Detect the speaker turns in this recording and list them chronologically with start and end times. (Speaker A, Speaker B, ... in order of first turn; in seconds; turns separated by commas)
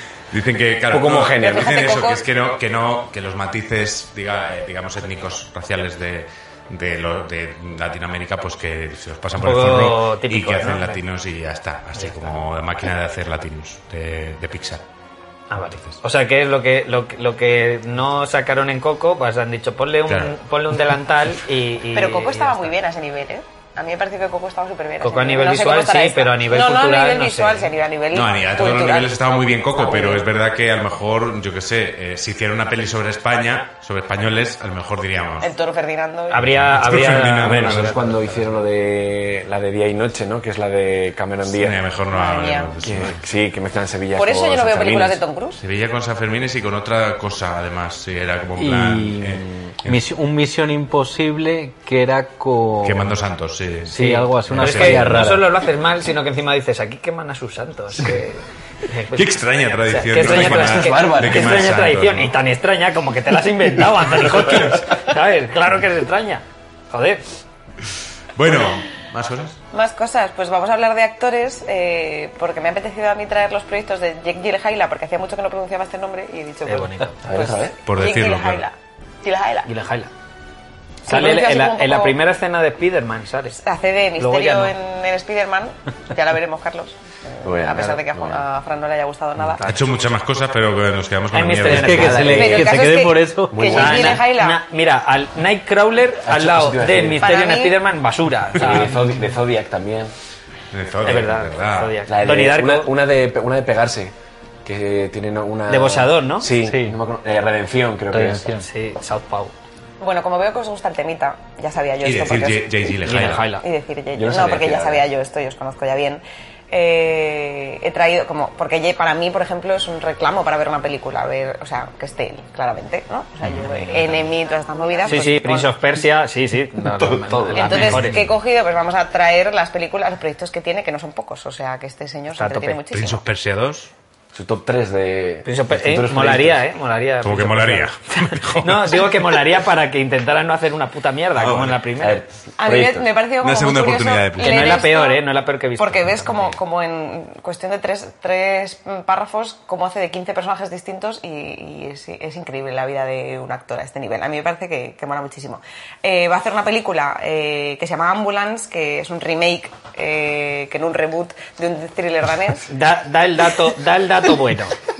Speaker A: 0.3-14.8, Speaker B: 0.9-1.7, Speaker C: 1.4-2.2, Speaker D: 9.4-11.0, Speaker D: 11.9-12.4, Speaker D: 15.5-22.7, Speaker A: 20.1-20.3, Speaker C: 21.9-29.2, Speaker D: 25.0-27.7, Speaker A: 28.1-35.5, Speaker C: 29.8-30.2, Speaker C: 35.4-36.5, Speaker D: 36.3-38.3, Speaker A: 36.4-38.1, Speaker B: 37.4-41.8, Speaker A: 41.5-43.2, Speaker C: 42.1-42.8, Speaker B: 42.8-45.2, Speaker C: 44.1-45.6, Speaker A: 45.6-50.0, Speaker E: 48.6-53.2, Speaker A: 52.8-55.3, Speaker E: 53.9-55.5, Speaker D: 54.0-67.2, Speaker A: 59.1-62.3, Speaker B: 60.2-61.6, Speaker A: 68.3-69.6, Speaker C: 69.7-79.7, Speaker D: 76.7-77.3, Speaker B: 77.2-77.8, Speaker A: 77.8-78.6, Speaker D: 79.7-80.1, Speaker C: 81.0-82.2, Speaker D: 81.1-83.6, Speaker C: 83.6-89.7, Speaker D: 84.2-84.7, Speaker B: 87.4-88.4, Speaker A: 89.6-92.4, Speaker D: 91.3-92.7, Speaker E: 91.7-94.1, Speaker C: 92.3-94.6, Speaker B: 93.6-94.1, Speaker D: 93.6-99.0, Speaker B: 96.2-97.2, Speaker C: 97.2-97.8, Speaker B: 98.6-100.1, Speaker A: 100.7-102.0, Speaker D: 101.0-102.9, Speaker B: 102.1-104.1, Speaker B: 104.6-108.5, Speaker D: 105.7-106.5, Speaker E: 106.6-107.0, Speaker E: 108.1-108.7, Speaker D: 108.6-109.5, Speaker C: 110.0-112.8, Speaker A: 112.0-113.5, Speaker D: 113.0-113.6, Speaker C: 113.6-125.7, Speaker B: 114.1-115.0, Speaker A: 123.4-124.2, Speaker D: 125.0-128.2, Speaker B: 126.8-128.0, Speaker C: 127.5-133.2, Speaker A: 127.7-128.1, Speaker D: 132.3-132.8, Speaker A: 132.9-133.9, Speaker B: 134.3-136.6, Speaker D: 135.4-137.9, Speaker A: 137.2-139.1, Speaker D: 138.5-142.2, Speaker A: 141.3-141.8, Speaker B: 142.0-143.1, Speaker C: 142.6-145.2, Speaker A: 143.4-144.8, Speaker D: 144.4-146.6, Speaker C: 145.8-162.7, Speaker D: 162.7-164.7